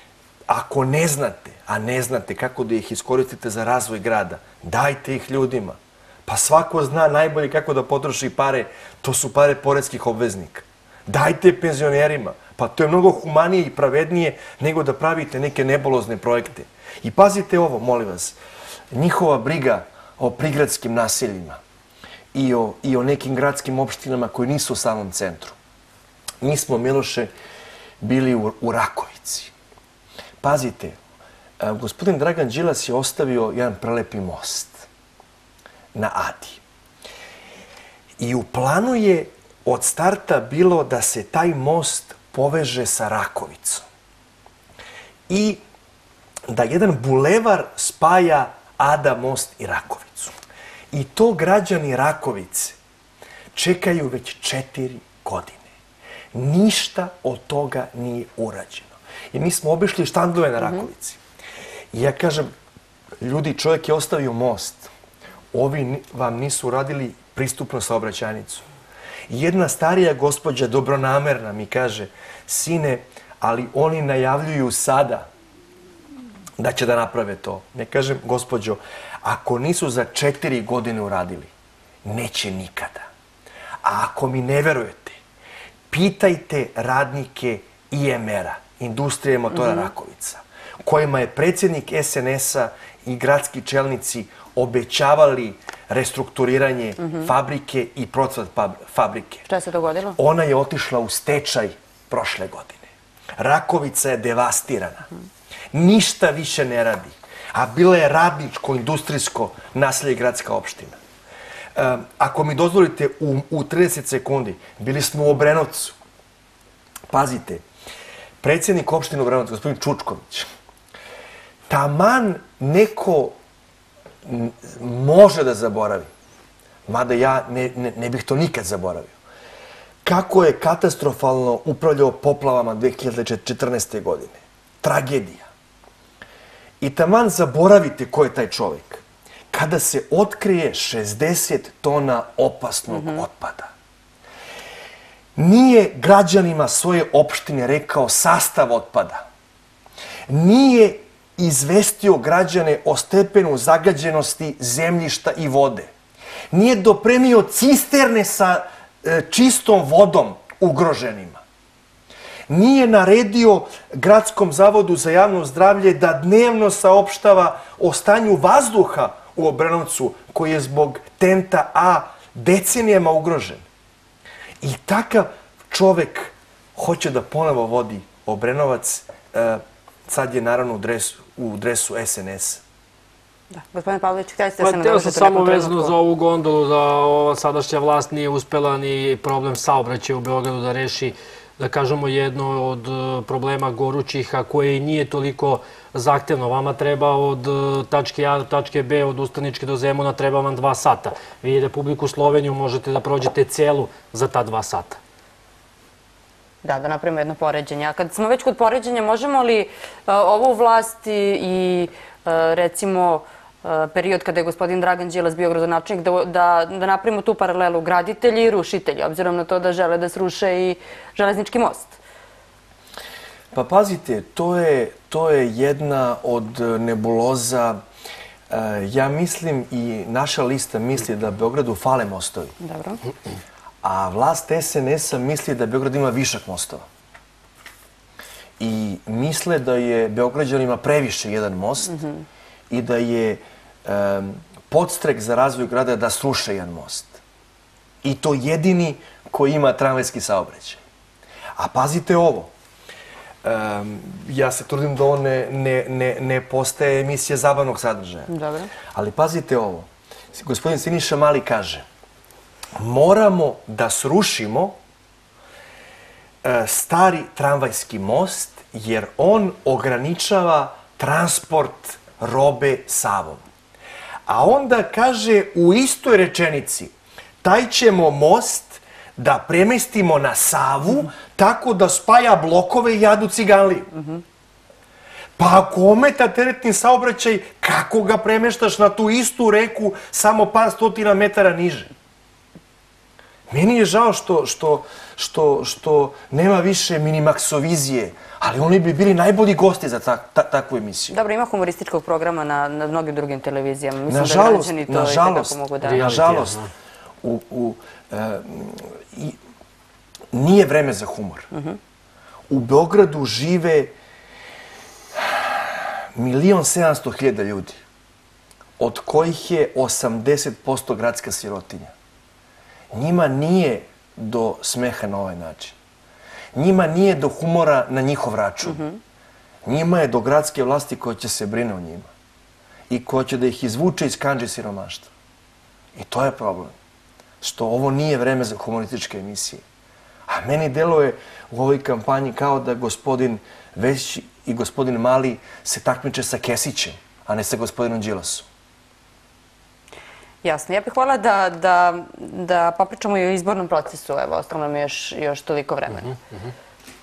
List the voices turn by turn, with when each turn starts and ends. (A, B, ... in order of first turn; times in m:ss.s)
0:00.5-0:18.4 A
0:18.9-0:21.6 A
0:22.3-0:25.6 A
0:26.4-0:27.3 A
0:28.0-0:29.5 A
0:30.4-0:31.0 A
0:31.6-0:34.8 A
0:35.9-0:36.6 A
0:38.2-0:43.8 A
0:45.3-0:45.6 A
0:46.5-0:50.3 A
0:50.9-0:52.8 A
0:53.5-0:55.6 A
0:56.3-1:01.2 A
1:01.9-1:02.5 A
1:03.2-1:04.9 A
1:05.5-1:08.6 A
1:09.3-1:15.3 A
1:16.6-1:21.5 A
1:22.0-1:23.1 A
1:23.8-1:25.2 A
1:25.9-1:39.4 A
1:29.6-1:29.9 B
1:39.5-1:40.2 B
1:40.2-1:42.9 A
1:43.4-1:45.1 A
1:45.7-1:51.0 A
1:51.7-1:56.0 A
1:57.1-1:57.6 A
1:58.4-2:00.5 A
2:01.7-2:03.4 A
2:04.2-2:06.1 A
2:06.9-2:09.1 A
2:10.0-2:15.5 A
2:16.8-2:23.7 A
2:25.4-2:29.3 A
2:30.3-2:35.9 A
2:36.5-2:41.4 A
2:42.5-2:53.6 A
2:54.6-3:02.6 A
3:03.5-3:05.9 B
3:04.6-3:25.0 C
3:26.6-3:42.0 B
3:43.5-3:47.8 A
3:48.5-3:52.5 A
3:52.6-3:53.0 B
3:53.8-3:56.8 A
3:58.6-4:02.0 A
4:02.7-4:07.2 A
4:08.0-4:10.8 A
4:11.6-4:12.5 A
4:13.4-4:18.3 A
4:18.3-4:18.7 B
4:18.9-4:21.8 A
4:22.8-4:24.8 A
4:26.4-4:33.4 A
4:34.2-4:43.9 A
4:45.4-4:51.9 A
4:53.5-5:01.2 A
5:01.1-5:06.2 B
5:04.1-5:06.6 A
5:05.8-5:06.7 C
5:07.2-5:09.4 A
5:10.3-5:11.5 A
5:11.5-5:11.8 B
5:12.5-5:13.9 A
5:15.1-5:17.8 A
5:18.8-5:21.9 A
5:22.9-5:25.8 A
5:26.5-5:28.8 A
5:28.6-5:29.0 B
5:29.6-5:32.1 A
5:32.9-5:35.1 A
5:35.9-5:36.7 A
5:37.4-5:39.6 A
5:40.3-5:48.5 A
5:50.4-5:56.1 B